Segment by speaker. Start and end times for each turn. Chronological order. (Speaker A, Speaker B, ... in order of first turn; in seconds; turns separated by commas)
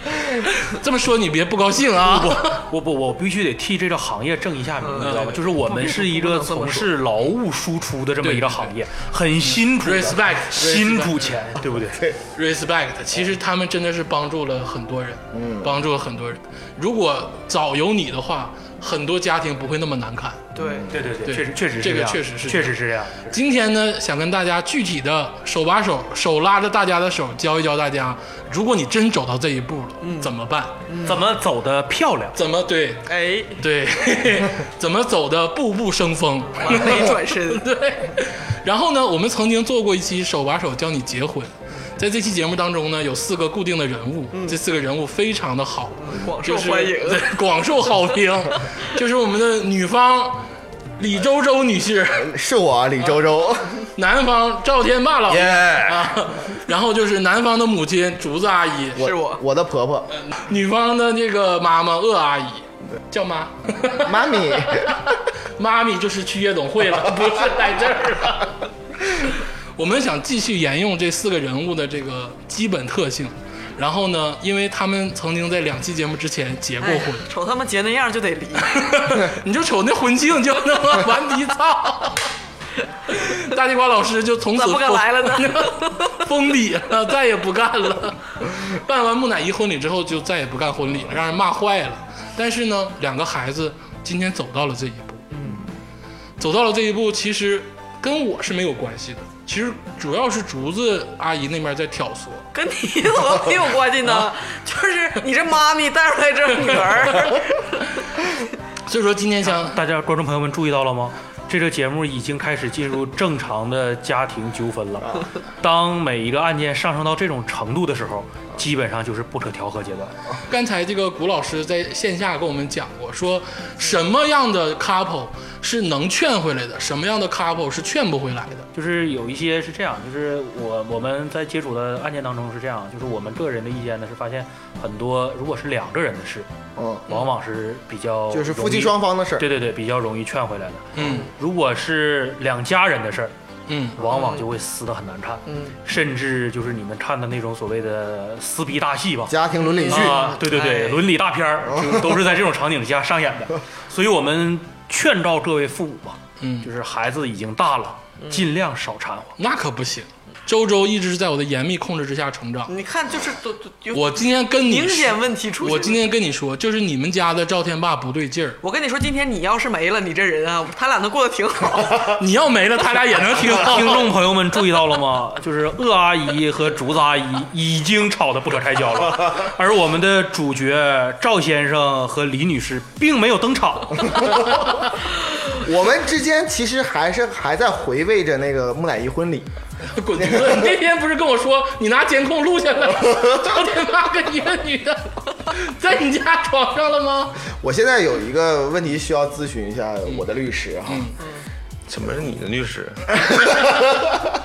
Speaker A: 0.5-2.6, Speaker B: 2.0-12.0, Speaker C: 4.8-6.9, Speaker A: 5.0-5.4, Speaker A: 8.2-8.7, Speaker A: 9.4-11.5, Speaker D: 11.9-12.2, Speaker A: 12.3-20.5, Speaker D: 15.3-15.8, Speaker C: 20.6-20.9, Speaker D: 20.6-21.0, Speaker B: 20.9-23.4, Speaker A: 21.3-22.8, Speaker A: 23.3-30.8, Speaker C: 30.0-30.3, Speaker C: 30.9-31.2, Speaker B: 31.1-32.4, Speaker A: 32.4-50.5, Speaker C: 33.1-33.6, Speaker C: 36.5-37.7, Speaker C: 46.0-47.3, Speaker A: 51.0-52.3, Speaker D: 52.2-53.8, Speaker A: 54.0-59.1, Speaker E: 55.3-56.2, Speaker C: 59.0-59.4, Speaker D: 59.0-60.1, Speaker A: 60.1-68.7, Speaker D: 63.9-65.0, Speaker A: 69.2-77.3, Speaker C: 76.8-79.2, Speaker A: 78.8-82.3, Speaker A: 83.1-95.2, Speaker C: 84.5-86.2, Speaker C: 95.3-95.6, Speaker A: 96.4-102.5, Speaker C: 102.5-107.9, Speaker A: 106.6-107.2, Speaker A: 108.9-109.8, Speaker B: 109.6-120.1, Speaker A: 120.5-128.7, Speaker B: 128.7-136.5, Speaker D: 136.8-137.1, Speaker B: 137.1-143.3, Speaker D: 138.3-139.5, Speaker A: 141.0-141.2, Speaker A: 143.7-144.0, Speaker B: 144.0-149.4, Speaker C: 144.1-144.5, Speaker C: 145.5-145.8, Speaker D: 149.3-150.4, Speaker C: 149.6-151.0, Speaker B: 149.9-159.4, Speaker D: 151.7-152.0, Speaker A: 156.4-156.7, Speaker C: 158.2-158.5, Speaker A: 159.4-162.7, Speaker C: 162.7-166.0, Speaker A: 163.9-168.6, Speaker C: 168.6-172.1, Speaker A: 172.1-174.1, Speaker B: 173.6-184.3, Speaker D: 185.5-189.5, Speaker A: 189.9-197.4, Speaker D: 190.2-190.7, Speaker D: 197.5-201.1, Speaker A: 200.9-201.2, Speaker E: 201.9-203.7